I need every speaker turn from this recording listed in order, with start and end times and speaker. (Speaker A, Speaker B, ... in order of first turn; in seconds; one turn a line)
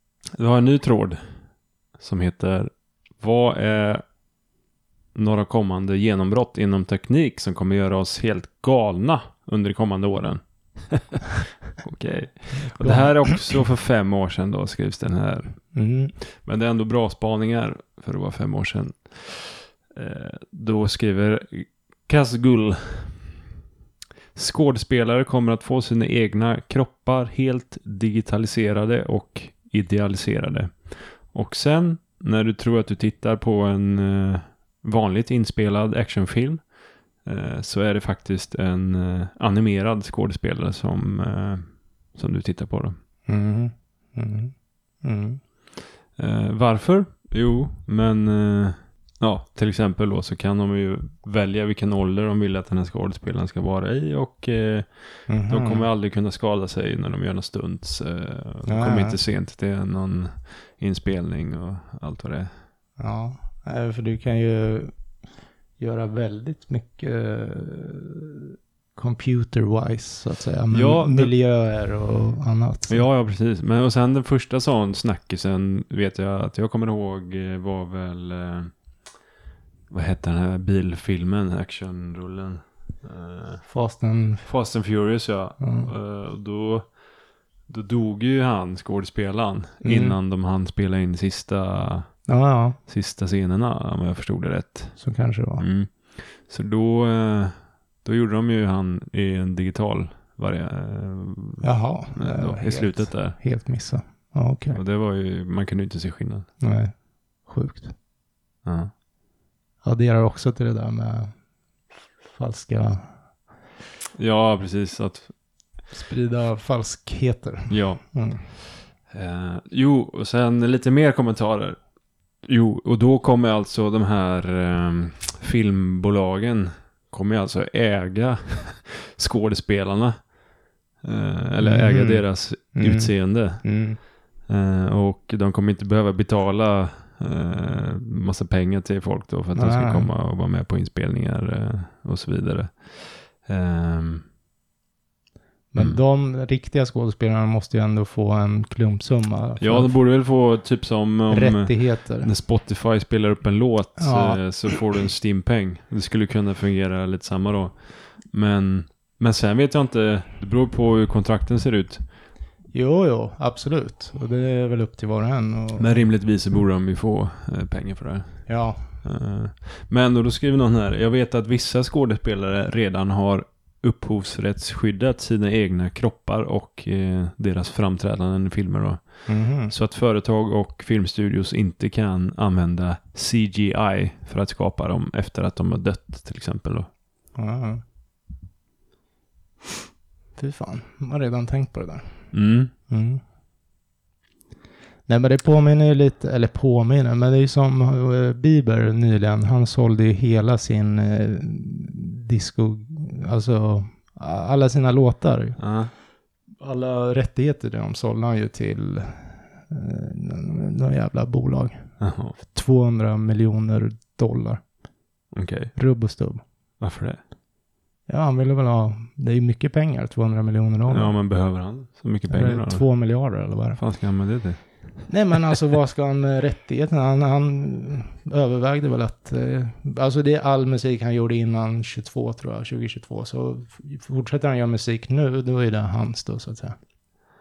Speaker A: 0.4-1.2
Speaker A: 2.0-4.0
Speaker A: 5.1-15.6
Speaker B: 12.5-13.6
Speaker B: 15.7-16.1
Speaker A: 16.2-23.3
Speaker A: 24.3-36.6
Speaker A: 37.2-42.9
Speaker B: 43.3-45.4
Speaker A: 46.2-62.5
Speaker B: 55.3-55.9
Speaker B: 58.6-59.2
Speaker B: 63.0-64.9
Speaker B: 65.8-73.0
Speaker A: 70.7-71.3
Speaker A: 72.9-78.7
Speaker A: 79.9-83.6
Speaker B: 83.6-84.5
Speaker A: 84.4-86.9
Speaker B: 85.6-85.9
Speaker A: 87.7-92.1
Speaker B: 89.8-90.2
Speaker B: 92.3-92.8
Speaker A: 92.9-95.0
Speaker B: 95.0-95.7
Speaker A: 95.6-103.3
Speaker B: 101.6-104.8
Speaker A: 104.7-106.5
Speaker B: 106.6-107.9
Speaker A: 108.6-108.9
Speaker B: 109.8-111.3
Speaker B: 112.3-113.1
Speaker A: 114.2-115.3
Speaker B: 115.9-118.5
Speaker A: 117.7-121.8
Speaker A: 122.4-130.2
Speaker A: 131.0-133.7
Speaker B: 131.6-134.0
Speaker A: 134.5-144.2
Speaker B: 139.5-140.1
Speaker B: 145.7-149.9
Speaker A: 149.6-162.0
Speaker B: 151.3-152.3
Speaker B: 154.0-154.4
Speaker B: 162.7-166.0
Speaker A: 165.8-168.5
Speaker B: 168.5-168.8
Speaker A: 169.0-186.9
Speaker B: 179.3-179.7
Speaker B: 187.3-187.8
Speaker B: 190.4-192.2
Speaker A: 192.3-192.7
Speaker B: 192.9-193.2
Speaker B: 195.1-205.6
Speaker A: 205.6-205.9
Speaker B: 206.6-214.6
Speaker A: 212.0-212.3
Speaker A: 215.3-215.7
Speaker B: 215.7-216.4
Speaker A: 216.8-217.2
Speaker B: 218.1-221.1
Speaker A: 220.9-222.8
Speaker B: 222.3-223.8
Speaker A: 223.8-224.7
Speaker B: 225.1-236.8